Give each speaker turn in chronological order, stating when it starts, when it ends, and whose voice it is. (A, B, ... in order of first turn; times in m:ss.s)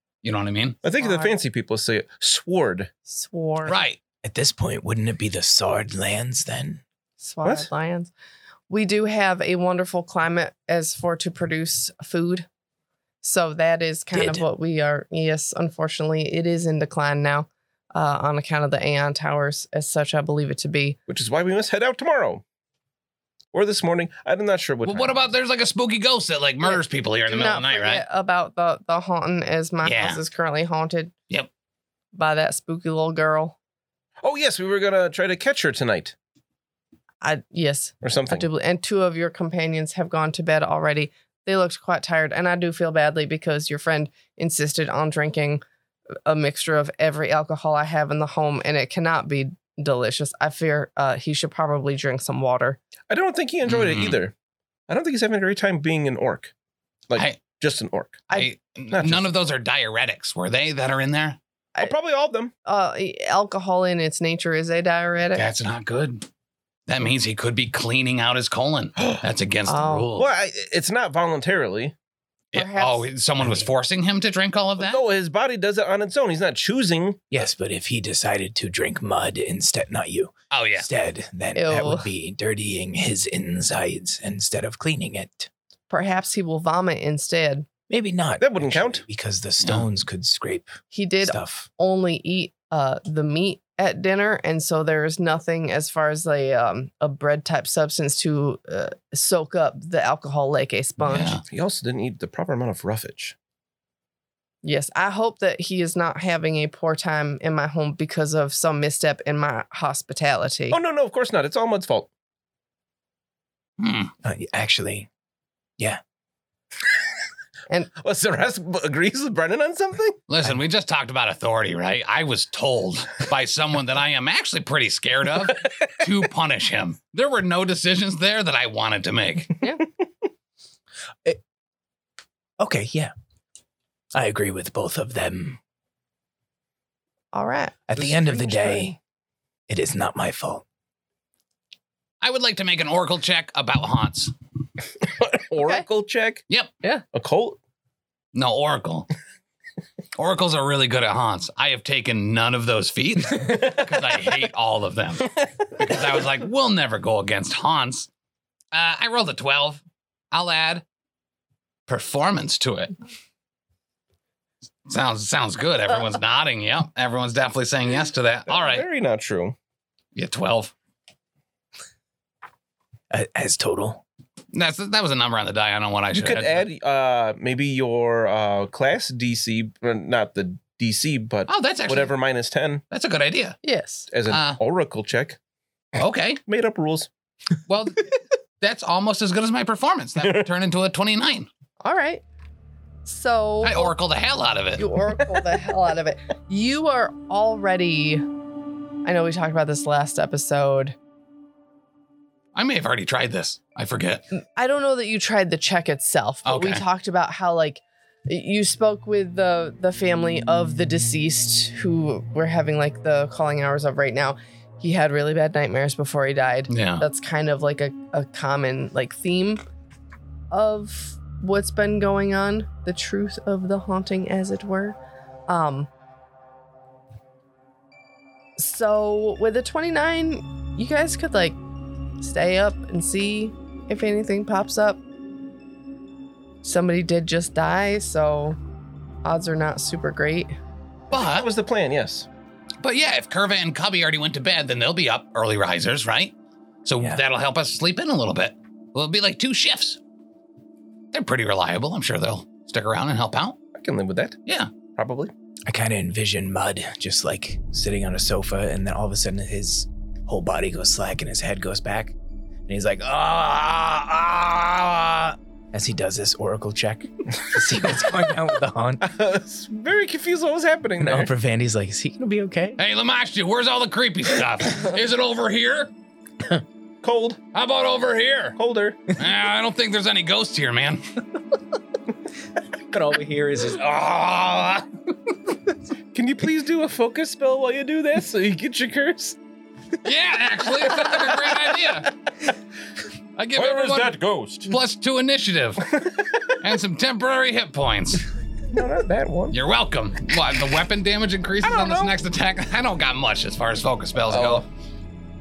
0:00.2-0:00.8 A
0:00.8-0:02.9 B
0:01.0-0:01.4 C
0:03.1-0:03.8 C
0:03.6-0:04.0 A
0:04.2-0:06.8 D
0:07.2-0:08.1 C
0:07.4-0:07.7 B
0:08.7-0:12.5 C
0:13.2-0:21.0 C
0:14.1-0:14.4 D
0:21.1-0:22.4 B
0:23.5-0:25.3 B
0:24.8-0:28.0 A
0:26.6-0:31.1 C
0:29.8-0:30.2 A
0:32.2-0:33.6 C
0:34.2-0:36.2 B
0:37.2-0:45.6 C
0:38.0-0:38.5 B
0:46.3-0:52.8 C
0:53.1-0:54.3 B
0:53.7-0:54.2 A
0:54.9-0:56.5 B
0:57.1-0:58.3 B
0:58.3-1:01.4 A
0:58.9-0:59.3 B
1:01.8-1:02.5 B
1:02.7-1:05.5 C
1:05.3-1:06.3 A
1:06.9-1:10.3 A
1:09.0-1:09.2 B
1:09.7-1:10.1 C
1:10.2-1:11.9 B
1:12.5-1:15.0 A
1:12.5-1:13.1 C
1:14.8-1:17.2 B
1:17.3-1:25.5 D
1:20.5-1:20.9 A
1:21.6-1:22.1 C
1:25.9-1:27.7 C
1:27.9-1:31.7 D
1:28.4-1:29.0 B
1:29.6-1:29.9 A
1:30.9-1:41.4 C
1:41.0-1:41.4 A
1:41.5-1:43.4 B
1:44.6-1:50.8 C
1:50.7-1:52.1 B
1:53.8-1:54.1 A
1:54.2-1:55.1 D
1:58.0-2:00.2 B
2:00.3-2:09.6 A
2:12.6-2:13.1 D
2:14.1-2:15.6 D
2:17.3-2:18.8 C
2:17.9-2:19.0 D
2:18.0-2:18.9 B
2:19.7-2:20.6 D
2:22.2-2:24.3 A
2:25.1-2:26.4 B
2:27.1-2:27.6 B
2:28.3-2:29.1 A
2:30.2-2:38.1 A
2:38.7-2:40.8 A
2:41.9-2:42.9 A
2:44.9-2:48.9 A
2:48.5-2:49.6 B
2:50.2-2:50.7 A
2:53.1-2:54.0 D
2:54.5-2:56.7 A
2:56.1-3:02.8 B
3:01.5-3:02.2 A
3:02.9-3:03.6 A
3:03.6-3:04.1 C
3:04.1-3:05.4 B
3:04.3-3:04.6 A
3:06.0-3:06.4 A
3:06.5-3:07.1 B
3:07.7-3:11.5 A
3:10.2-3:10.5 B
3:11.8-3:12.2 C
3:13.0-3:13.9 C
3:13.6-3:14.9 A
3:14.8-3:18.2 C
3:19.0-3:21.0 C
3:22.6-3:24.2 A
3:24.6-3:39.6 C
3:26.4-3:26.8 A
3:36.7-3:37.0 A
3:40.5-3:45.9 C
3:48.6-3:51.6 C
3:52.2-3:55.0 C
3:56.6-3:58.6 C
3:59.2-4:00.5 C
4:01.1-4:01.5 A
4:01.1-4:02.3 B
4:02.8-4:06.3 A
4:06.8-4:10.0 A
4:11.1-4:13.6 A
4:13.7-4:14.4 B
4:14.5-4:14.7 A
4:14.9-4:15.3 B
4:15.7-4:22.2 D
4:22.7-4:29.1 D
4:29.0-4:31.3 B
4:31.0-4:32.8 D
4:32.8-4:35.9 A
4:37.0-4:37.4 B
4:37.5-4:38.6 A
4:38.6-4:39.0 B
4:39.2-4:41.0 A
4:42.9-4:43.9 D
4:43.7-4:44.9 A
4:46.1-4:49.4 B
4:50.0-4:52.1 A
4:53.4-4:56.0 A
4:53.6-4:54.8 B
4:56.6-4:58.3 A
4:58.7-4:59.6 B
4:59.5-5:04.7 A
5:01.6-5:02.2 B
5:04.3-5:04.7 B